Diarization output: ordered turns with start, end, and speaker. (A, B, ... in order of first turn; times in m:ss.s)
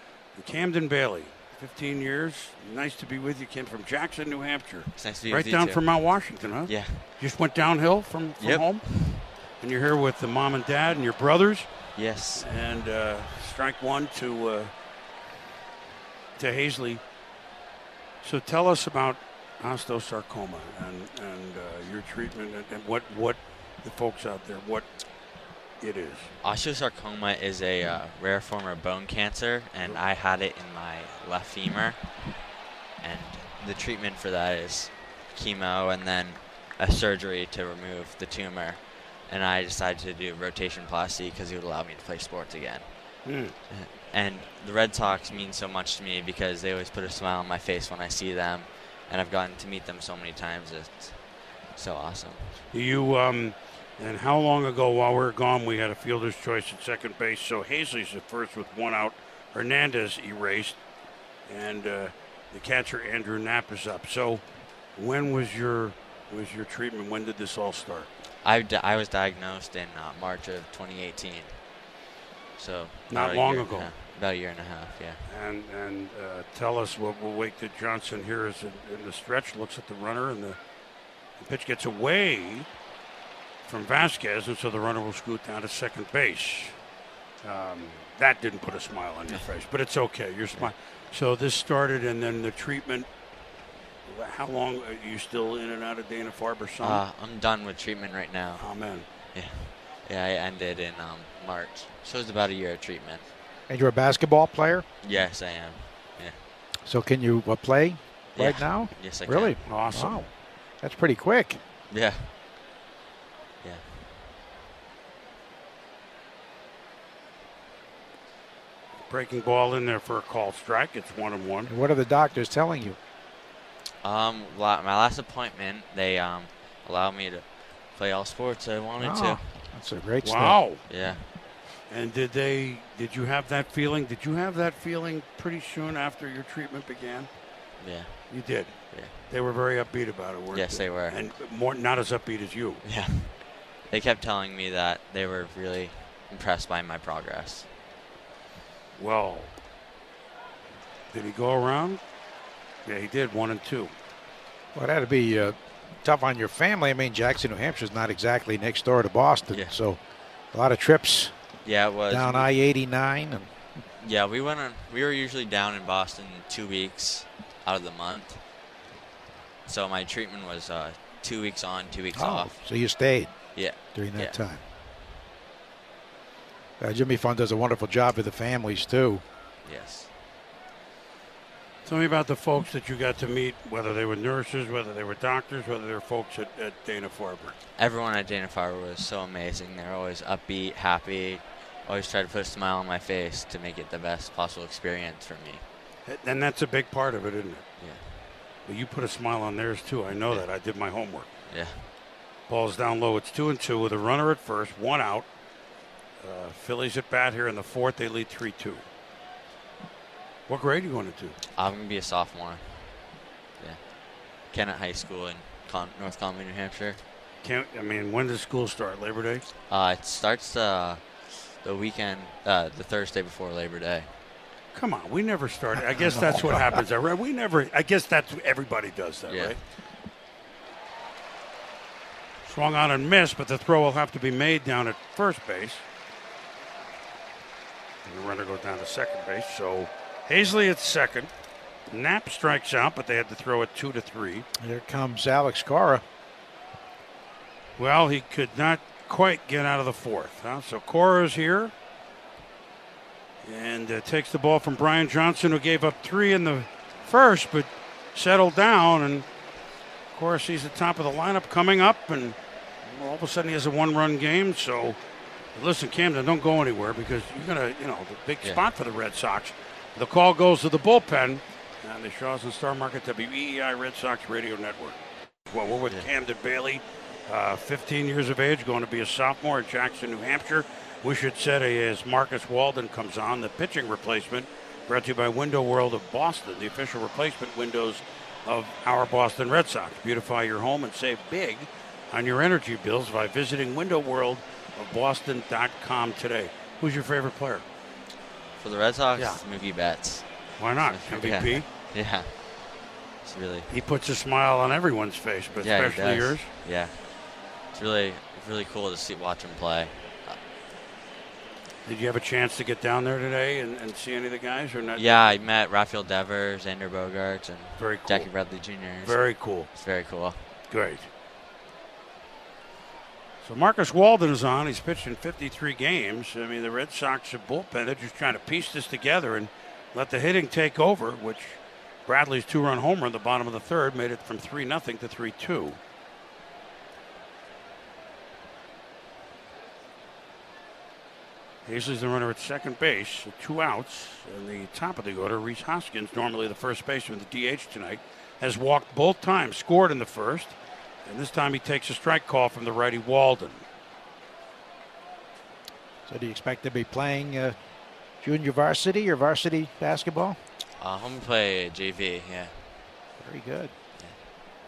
0:00.3-0:11.8 A
0:04.9-0:06.0 B
0:06.6-0:07.0 B
0:08.4-0:09.3 B
0:11.9-0:12.5 B
0:12.4-0:14.7 A
0:16.4-0:17.0 A
0:18.2-0:24.8 A
0:25.8-0:26.3 A
0:26.4-0:32.0 B
0:33.0-0:52.6 B
0:43.2-0:43.5 A
0:52.7-1:00.8 A
1:01.4-1:04.4 A
1:05.0-1:08.1 A
1:08.4-1:11.6 B
1:12.6-1:15.2 B
1:13.1-1:13.9 A
1:15.2-1:20.6 A
1:21.4-1:22.7 A
1:23.6-1:26.8 A
1:27.4-1:33.1 A
1:34.0-1:37.0 A
1:36.8-1:38.7 B
1:38.6-1:39.1 A
1:39.3-1:43.2 B
1:43.7-1:44.8 C
1:45.0-1:46.4 B
1:46.8-1:50.3 C
1:48.4-1:49.6 B
1:49.6-1:50.2 A
1:50.8-1:51.6 C
1:51.9-1:52.3 B
1:59.1-2:01.7 A
2:01.7-2:03.0 C
2:04.0-2:09.4 B
2:09.0-2:10.6 C
2:10.2-2:10.8 A
2:10.9-2:11.3 B
2:11.9-2:17.3 A
2:17.8-2:19.1 B
2:18.3-2:22.8 A
2:20.5-2:21.2 B
2:22.8-2:27.7 B
2:28.9-2:29.5 A
2:31.1-2:32.0 A
2:32.8-2:33.9 A
2:34.7-2:40.0 C
2:39.5-2:39.8 B
2:40.5-2:41.3 C
2:41.6-2:42.5 B
2:42.1-2:43.5 C
2:44.0-2:48.4 B
2:49.6-2:52.5 B
2:52.1-2:53.3 C
2:53.5-2:54.4 B
2:53.9-2:54.6 C
2:56.8-2:59.2 C
2:59.6-3:00.1 B
3:01.8-3:07.6 A
3:07.8-3:15.6 B
3:16.0-3:17.7 A
3:17.8-3:18.0 B
3:18.6-3:21.3 A
3:21.5-3:21.8 B
3:22.5-3:25.3 A
3:26.2-3:28.8 A
3:30.5-3:31.4 A
3:31.6-3:32.9 B
3:33.6-3:33.9 B
3:34.5-3:37.0 B
3:37.4-3:39.4 A
3:39.7-3:44.1 B
3:44.7-3:49.6 A
3:46.0-3:46.4 C
3:49.3-3:49.6 B
3:52.4-3:55.8 A
3:58.0-4:01.3 A
4:01.9-4:04.4 A
4:04.6-4:06.0 C
4:07.8-4:11.7 A
4:13.4-4:19.2 A
4:20.1-4:25.0 A
4:25.5-4:35.0 A
4:35.5-4:57.6 A
4:58.6-5:02.5 B
4:59.2-4:59.4 A
5:00.6-5:01.7 A
5:03.2-5:03.7 B
5:03.7-5:06.5 A
5:05.6-5:07.1 B
5:07.7-5:10.4 B
5:11.8-5:15.3 A
5:14.9-5:20.4 B
5:17.8-5:18.3 A
5:19.0-5:19.7 A
5:20.7-5:21.1 A
5:23.4-5:35.8 A
5:41.6-5:53.6 A
5:56.1-5:57.5 C
5:58.2-6:00.4 C
6:00.8-6:02.5 B
6:03.2-6:03.7 C